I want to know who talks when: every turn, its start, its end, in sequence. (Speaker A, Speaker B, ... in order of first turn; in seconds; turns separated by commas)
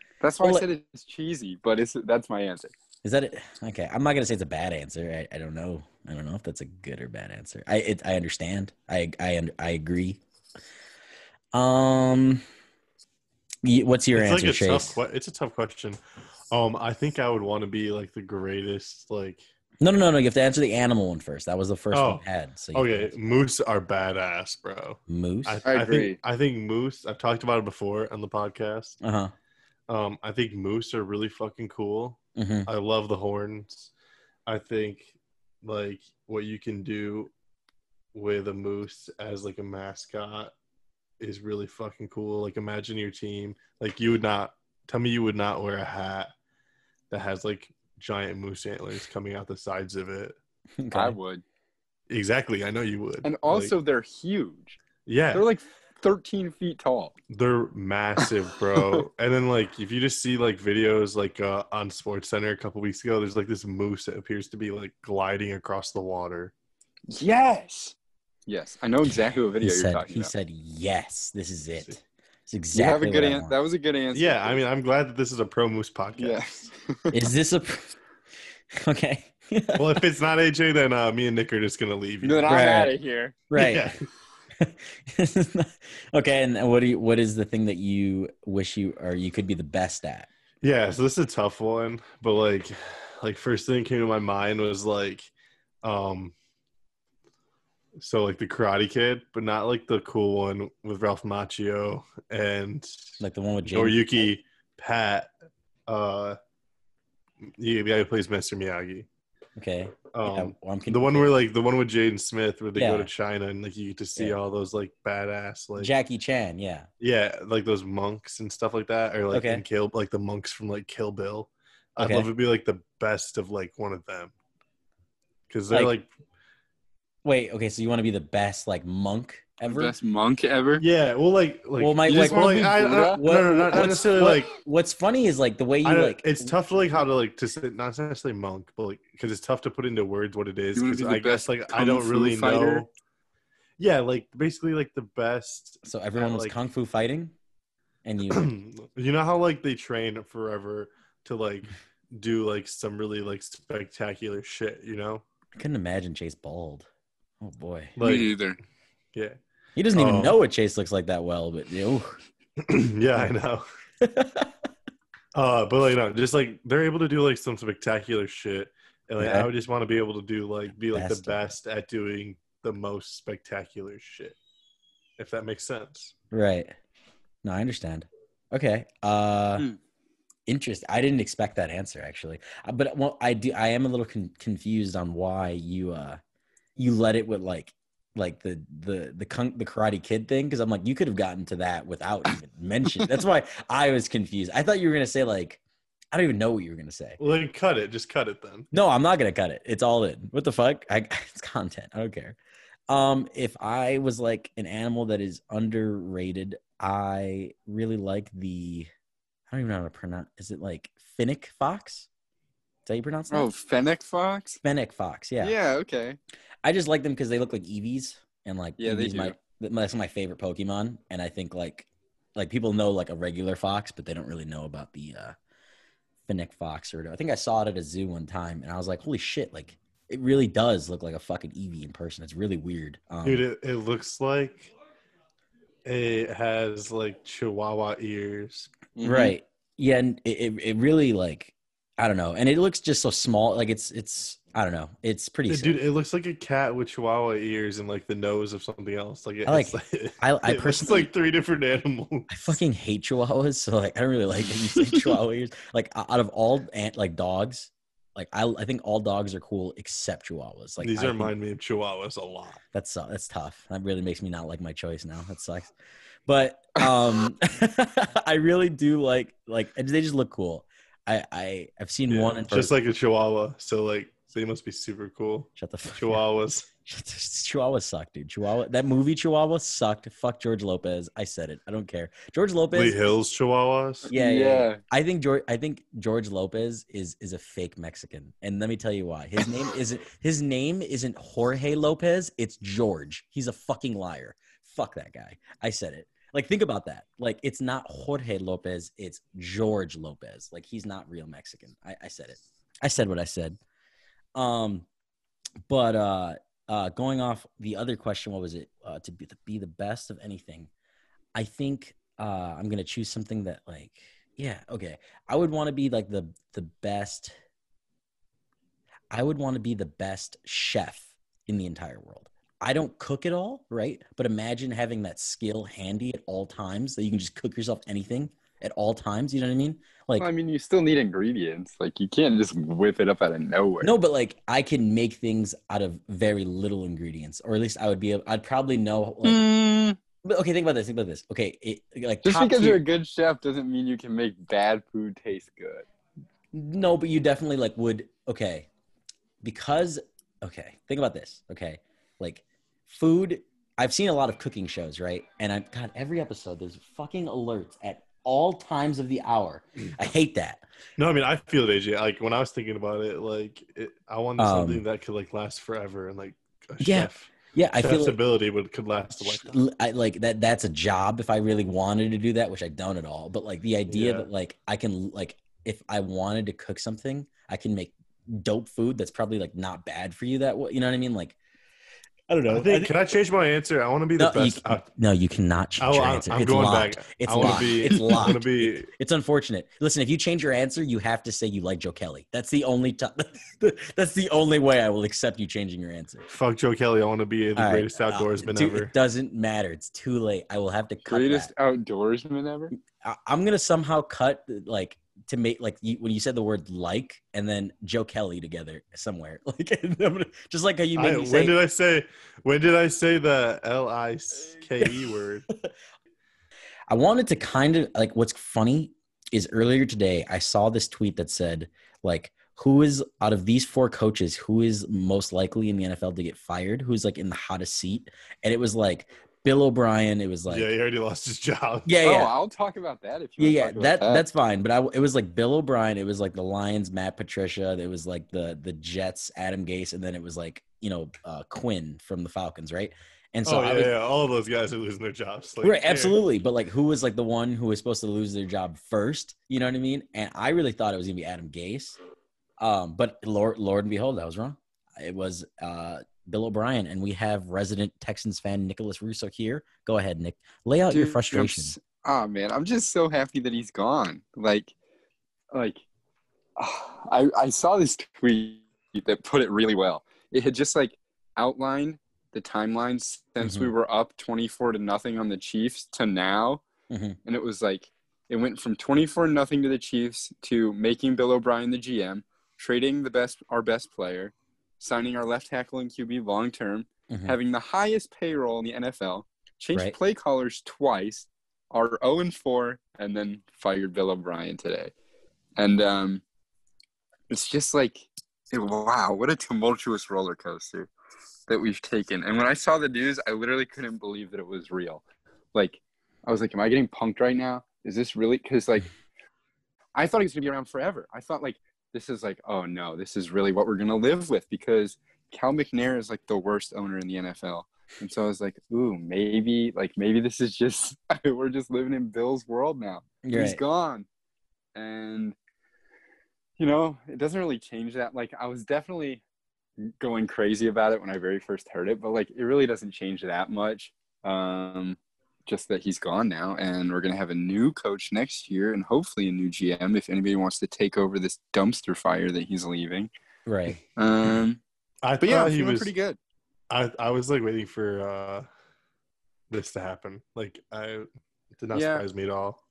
Speaker A: 0.2-2.7, Speaker B: 0.4-0.7, Speaker B: 3.0-10.2, Speaker B: 11.5-12.4, Speaker B: 13.6-15.0, Speaker C: 14.1-16.0, Speaker C: 16.5-19.4, Speaker B: 19.8-23.1, Speaker C: 21.9-29.0, Speaker B: 25.1-25.6, Speaker A: 25.7-26.2, Speaker B: 29.0-29.3, Speaker C: 29.9-33.9, Speaker B: 32.4-32.7, Speaker C: 34.5-35.1, Speaker C: 35.6-37.3, Speaker C: 38.1-40.5, Speaker C: 41.2-46.3, Speaker C: 47.1-50.4, Speaker B: 50.8-51.2, Speaker A: 50.9-51.4, Speaker C: 52.1-53.8, Speaker A: 53.2-54.8, Speaker C: 55.1-55.5, Speaker A: 55.3-57.1, Speaker C: 57.3-66.5, Speaker A: 58.2-59.0, Speaker A: 67.1-68.0, Speaker A: 68.5-70.3, Speaker B: 69.6-73.6, Speaker A: 72.7-74.6, Speaker C: 74.1-76.7, Speaker A: 76.2-77.2, Speaker B: 77.1-78.0, Speaker B: 78.7-80.0, Speaker C: 79.8-82.6, Speaker A: 82.2-83.4, Speaker B: 82.5-83.0, Speaker B: 83.5-83.9, Speaker C: 83.5-84.0, Speaker B: 84.6-90.3, Speaker C: 90.6-95.3, Speaker C: 95.8-96.3, Speaker C: 98.0-105.3, Speaker B: 103.2-104.1, Speaker C: 105.9-106.4, Speaker C: 107.6-109.1, Speaker B: 109.6-111.3, Speaker C: 110.1-115.9, Speaker B: 112.8-113.1, Speaker B: 115.8-116.9, Speaker C: 117.0-124.3, Speaker B: 119.3-119.7, Speaker B: 122.0-122.3, Speaker C: 125.5-126.1, Speaker B: 127.2-129.9, Speaker A: 129.6-130.8, Speaker C: 130.8-134.6, Speaker B: 131.8-136.5, Speaker A: 132.1-133.2, Speaker C: 135.8-142.9, Speaker A: 140.7-142.9, Speaker C: 143.8-146.6, Speaker B: 145.8-147.3, Speaker B: 148.1-148.5, Speaker C: 148.3-155.2, Speaker B: 155.6-156.9, Speaker B: 157.4-157.9, Speaker C: 158.0-158.4, Speaker A: 158.0-158.6, Speaker B: 159.8-162.2, Speaker C: 159.9-160.4, Speaker C: 162.6-163.6, Speaker B: 164.0-164.5, Speaker C: 165.3-174.4, Speaker B: 169.2-169.5, Speaker B: 170.9-171.4, Speaker C: 175.2-176.1, Speaker B: 176.3-176.7, Speaker B: 177.4-179.7, Speaker B: 180.5-186.2, Speaker B: 186.8-195.6, Speaker B: 196.1-197.2, Speaker C: 197.2-198.7, Speaker B: 198.7-202.4, Speaker B: 202.9-208.9, Speaker B: 209.5-212.1, Speaker B: 212.9-213.5, Speaker A: 213.3-214.6, Speaker B: 214.6-215.6, Speaker A: 215.4-216.2, Speaker B: 216.6-225.4, Speaker A: 218.8-219.4, Speaker B: 226.3-233.4, Speaker C: 233.2-234.7, Speaker C: 235.8-238.7, Speaker A: 239.0-239.4, Speaker B: 239.0-245.8, Speaker C: 245.5-252.6, Speaker B: 249.5-251.1, Speaker B: 252.3-261.3, Speaker C: 260.8-262.6, Speaker B: 262.7-265.7, Speaker B: 266.3-272.7, Speaker C: 272.1-276.7, Speaker B: 275.6-276.2, Speaker B: 276.9-283.0, Speaker C: 282.7-284.1, Speaker A: 284.1-284.8, Speaker B: 284.1-303.6, Speaker B: 304.4-304.9, Speaker B: 305.7-310.7, Speaker B: 311.4-317.4, Speaker B: 319.1-330.3, Speaker A: 330.2-333.9, Speaker B: 333.8-339.4, Speaker A: 339.2-340.0, Speaker B: 340.2-342.8, Speaker A: 342.2-345.9, Speaker B: 346.5-348.7, Speaker B: 349.4-360.6, Speaker C: 361.0-369.6, Speaker B: 364.4-364.8, Speaker B: 366.8-368.2, Speaker B: 369.2-381.4, Speaker C: 373.9-374.3, Speaker B: 382.3-382.9, Speaker C: 382.5-384.9, Speaker B: 384.2-396.2, Speaker C: 385.8-388.9, Speaker C: 396.3-398.9, Speaker B: 397.6-401.5, Speaker A: 401.1-402.7, Speaker B: 403.0-411.6, Speaker C: 411.0-415.5, Speaker B: 416.9-430.7, Speaker C: 430.5-431.9, Speaker B: 431.9-432.3, Speaker A: 432.0-434.2, Speaker B: 433.4-443.9, Speaker C: 443.4-446.2, Speaker B: 445.6-452.0, Speaker B: 452.6-461.8, Speaker A: 460.9-464.7, Speaker A: 465.5-465.8, Speaker A: 466.6-476.6, Speaker B: 473.4-473.7, Speaker B: 476.9-477.2, Speaker A: 477.2-494.9, Speaker B: 487.1-487.4, Speaker A: 495.6-496.2, Speaker A: 497.3-500.9, Speaker A: 501.5-505.0, Speaker A: 505.5-508.9, Speaker A: 510.0-524.1, Speaker B: 523.2-523.6, Speaker A: 524.8-525.4, Speaker A: 526.6-529.2, Speaker A: 530.0-543.1, Speaker B: 543.5-543.8, Speaker A: 544.0-544.6, Speaker C: 545.0-545.9, Speaker A: 545.2-546.2, Speaker C: 546.7-548.5, Speaker C: 549.5-552.6, Speaker A: 551.7-552.0